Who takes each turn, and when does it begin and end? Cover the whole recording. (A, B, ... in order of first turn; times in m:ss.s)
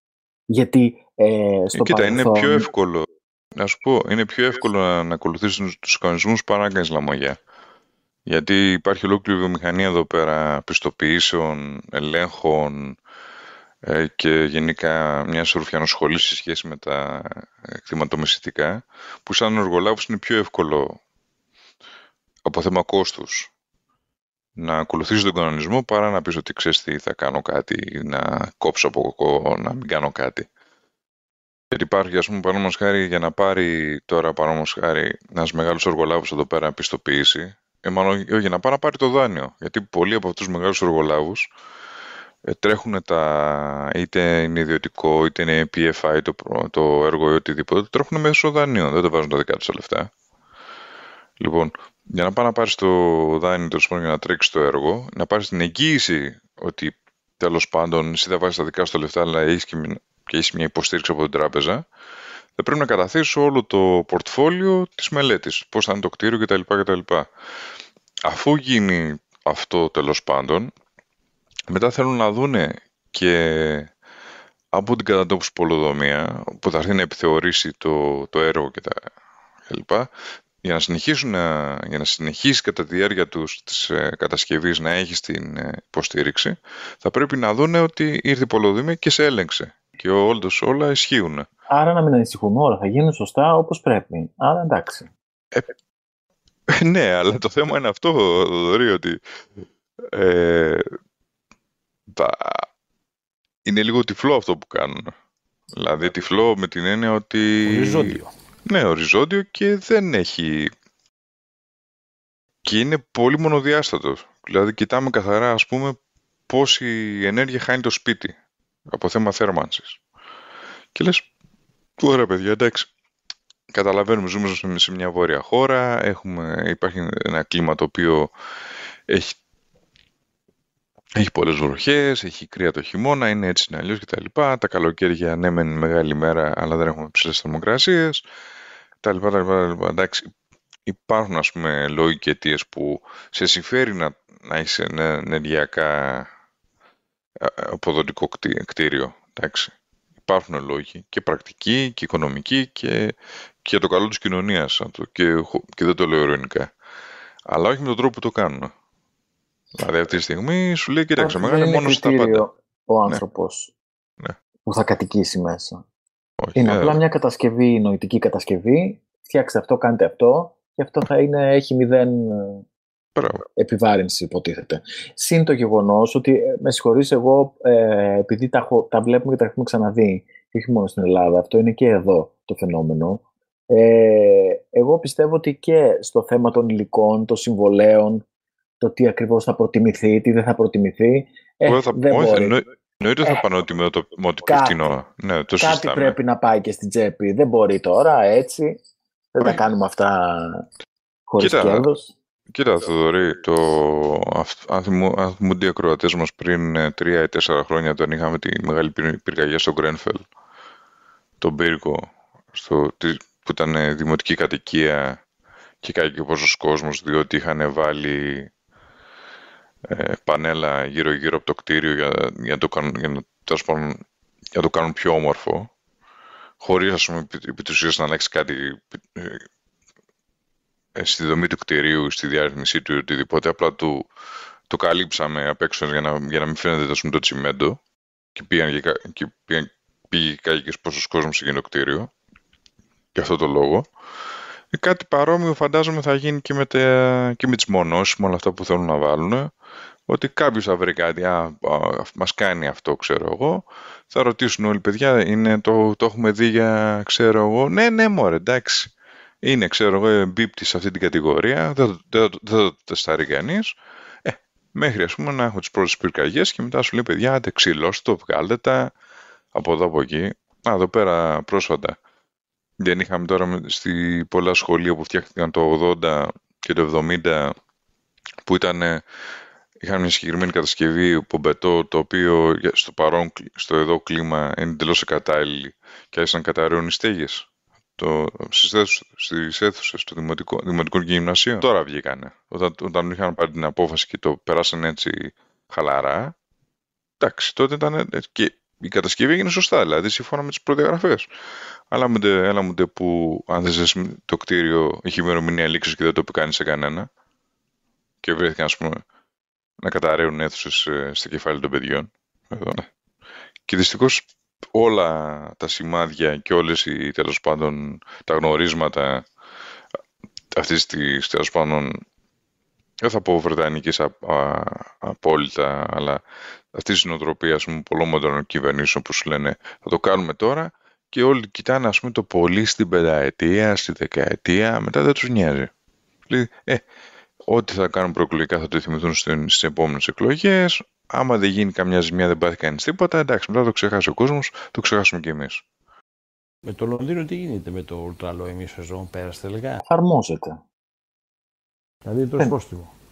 0:00.5-0:02.7 A
0:01.7-0:07.4 B
0:08.2-0:13.0 B
0:13.8-0:21.0 B
0:22.4-0:23.5 B
0:24.6-0:30.5 B
0:31.7-0:41.5 B
0:42.4-0:50.1 B
0:51.4-1:01.8 B
1:02.6-1:07.3 B
1:08.2-1:10.7 B
1:11.7-1:13.9 B
1:14.7-1:19.1 B
1:19.7-1:20.1 B
1:20.6-1:31.5 B
1:31.7-1:35.1 A
1:36.7-1:39.2 B
1:40.0-1:40.9 B
1:42.1-1:42.7 B
1:43.6-1:45.1 B
1:45.7-1:50.7 B
1:47.6-1:48.3 C
1:52.6-1:56.0 B
1:56.5-1:58.3 B
1:58.9-2:00.0 B
2:00.9-2:01.2 B
2:02.0-2:02.9 B
2:03.7-2:08.3 B
2:09.1-2:09.4 B
2:11.2-2:18.2 B
2:19.0-2:20.3 B
2:20.8-2:26.3 B
2:27.4-2:29.7 B
2:30.2-2:36.7 B
2:37.5-2:38.7 B
2:39.8-2:42.4 B
2:41.2-2:43.7 A
2:44.6-2:45.8 A
2:46.4-2:47.0 B
2:46.6-2:52.6 A
2:53.2-2:53.4 B
2:53.6-3:08.2 A
3:08.8-3:12.6 A
3:11.6-3:16.1 B
3:14.4-3:14.9 A
3:15.6-3:18.8 A
3:19.3-3:20.7 A
3:21.3-3:22.1 A
3:21.4-3:21.9 B
3:22.5-3:30.2 B
3:31.4-3:35.2 B
3:35.8-3:38.5 B
3:39.8-3:44.0 B
3:44.5-3:45.7 B
3:46.6-3:49.5 B
3:51.0-3:54.1 B
3:54.7-3:57.8 B
3:58.3-4:02.1 B
4:03.1-4:03.9 B
4:04.7-4:09.5 B
4:10.1-4:28.9 B
4:29.5-4:32.0 B
4:32.8-4:37.5 B
4:38.4-4:39.0 B
4:39.8-4:47.5 B
4:48.0-4:56.3 B
4:57.2-5:01.3 B
5:01.9-5:07.1 B
5:08.2-5:09.0 B
5:09.8-5:12.9 B
5:13.7-5:19.2 B
5:20.5-5:22.0 B
5:23.0-5:26.2 B
5:26.7-5:35.7 B
5:36.3-5:36.8 B
5:37.5-5:45.6 B
5:46.6-5:49.8 C
5:49.8-5:50.6 A
5:52.0-5:52.9 C